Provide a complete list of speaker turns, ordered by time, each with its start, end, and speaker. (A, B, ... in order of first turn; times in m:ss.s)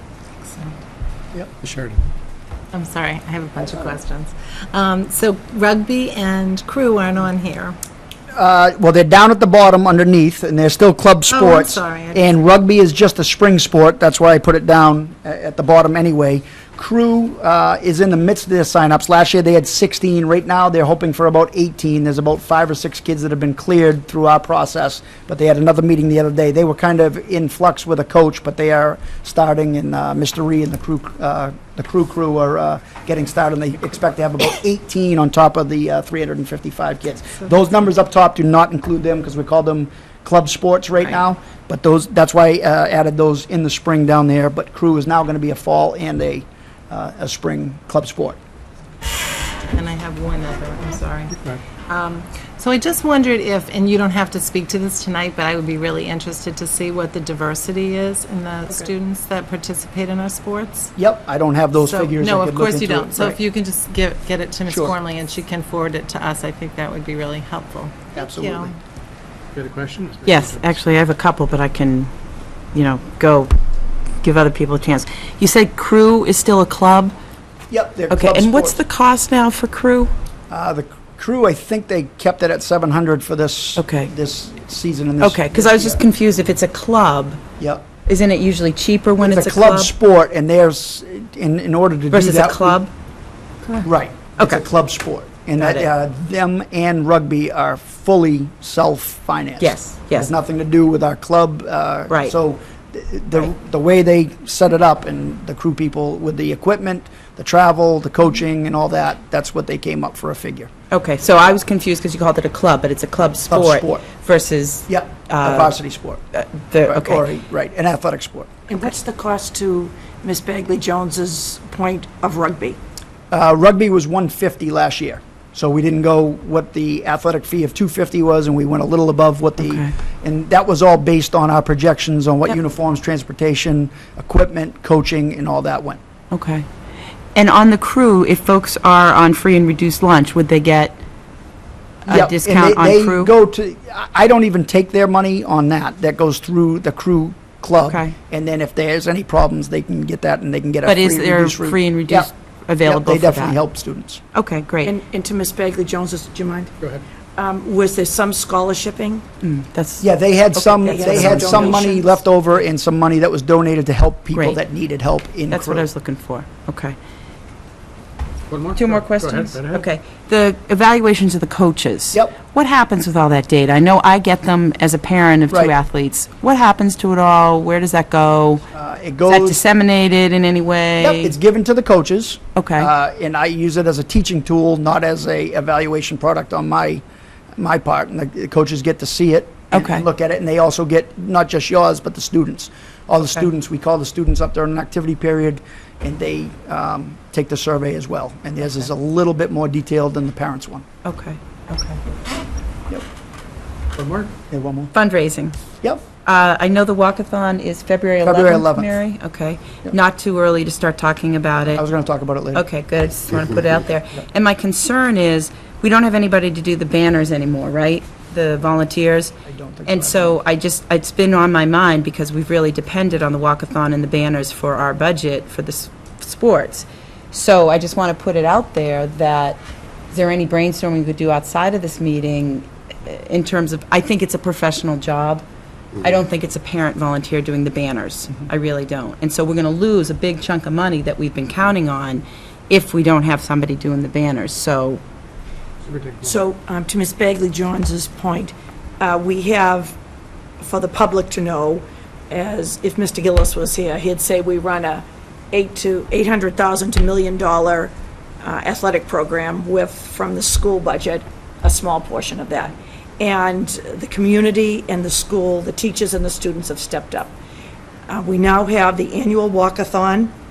0:00.4-0:00.8 A
0:01.6-0:02.0 B
0:02.7-0:07.8 A
0:08.3-0:48.4 C
0:11.3-0:12.4 A
0:49.7-1:00.9 A
0:51.4-0:51.6 B
1:01.0-1:03.4 C
1:01.7-1:08.8 A
1:04.7-1:04.9 C
1:08.1-1:08.7 C
1:09.5-1:10.9 B
1:10.2-1:12.1 D
1:12.7-1:13.5 D
1:14.2-1:17.1 D
1:17.7-1:18.8 C
1:18.1-1:20.1 D
1:20.5-1:26.0 C
1:23.8-1:24.1 D
1:25.2-1:27.4 D
1:27.6-1:27.8 C
1:28.0-1:29.9 D
1:29.2-1:32.8 C
1:32.1-1:32.9 D
1:33.8-1:50.7 C
1:34.4-1:34.6 D
1:35.6-1:35.9 D
1:39.6-1:40.3 D
1:42.1-1:42.3 D
1:50.9-1:55.8 D
1:53.5-1:54.0 C
1:54.9-1:56.2 C
1:56.3-1:57.3 D
1:56.9-1:58.5 C
1:58.7-2:02.8 E
2:03.3-2:16.0 C
2:09.6-2:09.9 D
2:16.3-2:16.6 D
2:17.3-2:21.0 D
2:22.0-2:23.3 D
2:22.1-2:32.3 C
2:27.8-2:28.1 D
2:30.8-2:33.6 D
2:32.8-2:34.2 C
2:34.3-2:34.9 D
2:34.8-2:36.7 E
2:37.4-2:39.2 E
2:39.4-2:41.9 D
2:40.0-2:45.9 C
2:40.8-2:42.2 E
2:44.3-2:44.6 D
2:45.5-2:47.0 D
2:48.5-2:49.9 B
2:48.7-2:58.6 D
2:52.1-2:52.4 C
2:58.7-2:59.6 C
2:59.2-3:01.4 D
3:01.0-3:07.0 C
3:02.6-3:02.9 D
3:07.6-3:20.8 C
3:09.7-3:10.0 D
3:21.0-3:22.0 D
3:23.9-3:24.3 B
3:24.5-3:24.9 C
3:24.9-3:25.6 D
3:26.2-3:31.8 D
3:28.2-3:28.9 C
3:31.7-3:32.6 C
3:32.5-3:55.4 D
3:39.4-3:40.4 C
3:56.0-4:05.0 D
4:05.8-4:06.4 B
4:06.2-4:10.0 E
4:10.6-4:27.3 E
4:28.1-4:30.3 E